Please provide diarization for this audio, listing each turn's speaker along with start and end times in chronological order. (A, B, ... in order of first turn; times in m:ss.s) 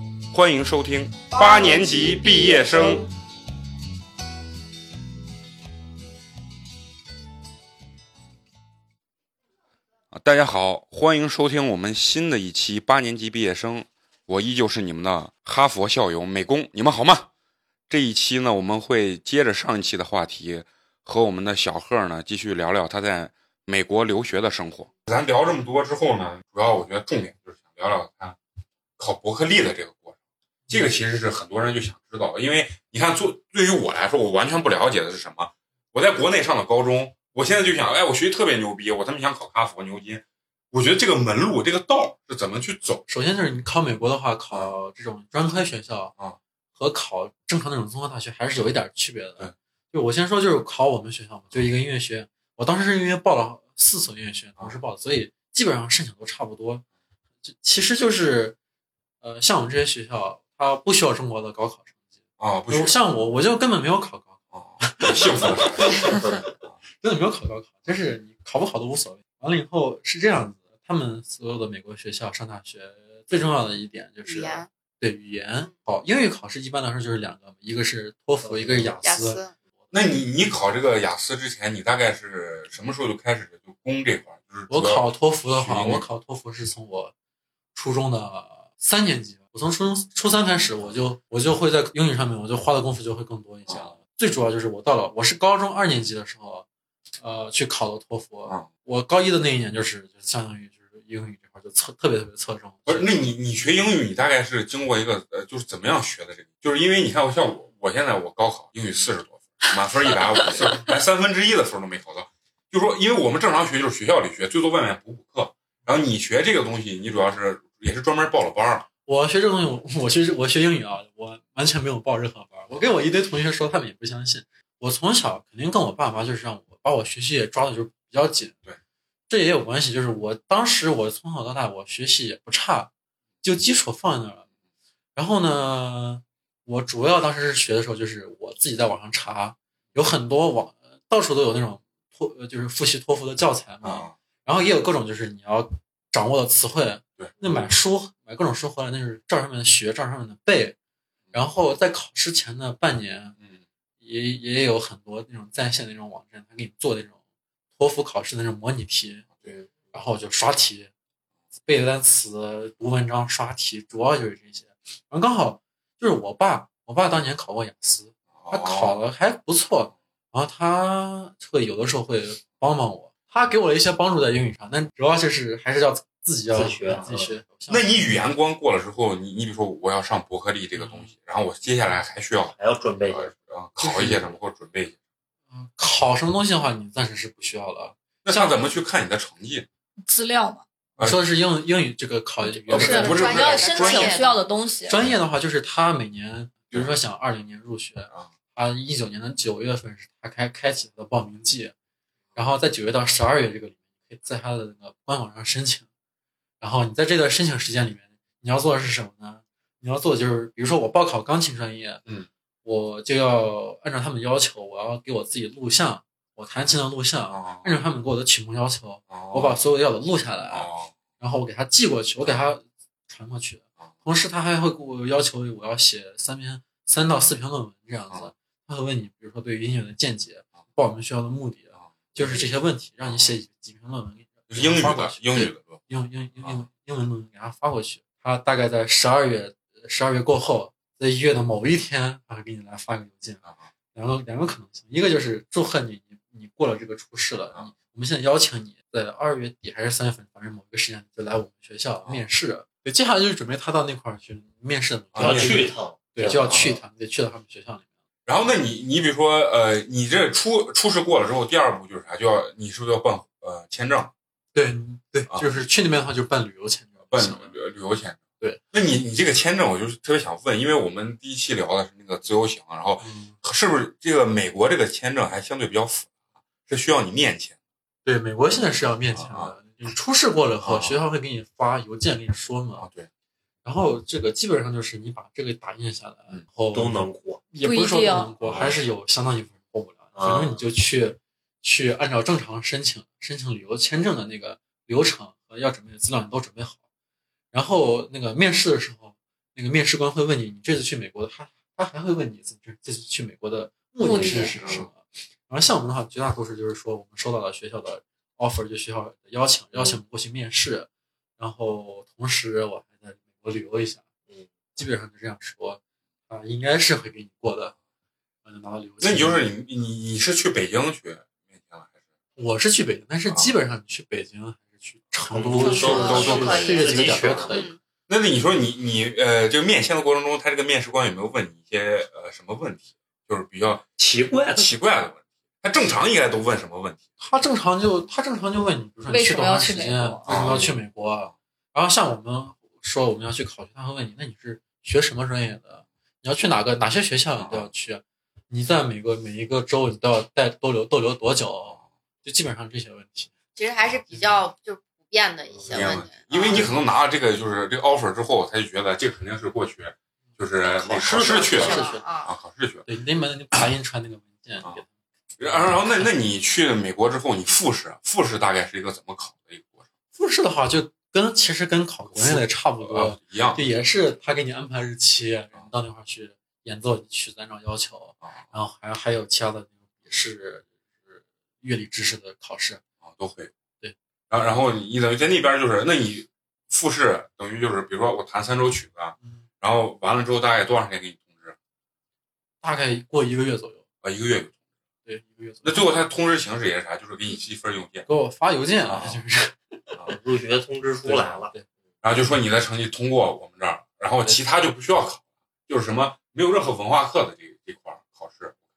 0:00.3-0:03.0 A
0:01.3-0:03.0 B
0:10.1-0:17.3 A
0:17.9-0:28.4 A
0:29.0-0:30.2 A
0:30.7-0:43.0 A
0:43.1-0:46.1 C
0:46.7-0:56.8 C
0:57.4-0:58.6 C
0:59.2-1:01.9 C
1:02.4-1:03.0 A
1:02.7-1:06.4 C
1:04.5-1:06.7 A
1:07.0-1:19.4 C
1:14.2-1:14.7 B
1:18.5-1:18.9 D
1:19.0-1:19.5 B
1:19.9-1:26.0 A
1:24.7-1:27.1 C
1:27.7-1:36.6 C
1:33.7-1:33.9 A
1:37.2-1:43.1 C
1:42.9-1:58.9 A
1:59.0-2:08.6 C
2:09.3-2:12.9 C
2:13.4-2:14.4 C
2:15.1-2:30.8 C
2:23.8-2:24.1 A
2:31.3-2:33.4 C
2:34.0-2:37.2 C
2:37.8-2:39.2 C
2:39.9-2:40.9 C
2:41.6-2:58.1 C
2:48.4-2:49.0 A
2:56.5-2:57.3 D
2:57.7-3:02.5 A
3:00.8-3:01.1 C
3:02.6-3:03.3 D
3:03.1-3:05.0 A
3:03.8-3:04.3 C
3:05.5-3:08.6 C
3:08.2-3:09.6 A
3:10.0-3:10.6 E
3:11.0-3:13.3 C
3:12.6-3:15.0 E
3:12.7-3:14.2 A
3:12.7-3:14.4 B
3:14.9-3:21.7 C
3:22.3-3:25.8 C
3:26.6-3:32.0 C
3:32.6-4:17.9 C
3:37.3-3:37.7 A
3:39.1-3:39.6 A
3:40.5-3:40.9 A
3:54.5-3:55.8 A
4:15.1-4:15.7 A
4:15.2-4:16.8 D
4:18.2-4:24.1 A
4:24.5-4:27.5 C
4:25.3-4:25.6 A
4:27.1-4:28.2 A
4:28.7-4:36.1 A
4:33.0-4:33.4 C
4:36.6-4:37.6 A
4:38.0-4:42.9 C
4:39.1-4:39.5 A
4:40.6-4:41.0 A
4:42.8-4:43.1 A
4:43.6-4:56.8 C
4:46.7-4:47.4 D
4:47.6-4:48.4 E
4:48.4-4:48.7 A
4:50.2-4:50.6 D
4:57.5-5:14.0 C
5:04.0-5:04.6 E
5:04.1-5:04.3 B
5:04.5-5:04.9 A
5:14.7-5:17.7 C
5:18.4-5:19.4 C
5:19.0-5:21.9 A
5:22.4-5:27.7 C
5:23.3-5:23.5 A
5:25.3-5:27.7 D
5:25.4-5:26.5 A
5:25.6-5:27.8 B
5:28.1-5:33.9 A
5:34.0-5:34.7 D
5:34.5-5:37.0 A
5:37.2-5:53.3 C
5:39.1-5:40.2 E
5:40.3-5:40.7 A
5:47.4-5:47.7 A
5:53.5-5:56.6 B
5:55.6-5:56.7 C
5:55.7-6:02.8 A
6:00.9-6:01.6 D
6:00.9-6:02.0 C
6:01.4-6:02.3 B
6:02.8-6:04.9 C
6:05.4-6:09.8 A
6:10.1-6:22.8 C
6:12.1-6:13.6 A
6:23.0-6:23.5 A
6:24.3-6:31.6 A
6:32.6-6:33.8 C
6:34.0-6:34.6 A
6:35.0-6:36.0 C
6:35.6-6:38.0 A
6:38.1-6:39.9 C
6:38.9-6:39.2 A
6:40.1-6:41.5 D
6:41.0-6:41.6 C
6:42.0-6:48.6 A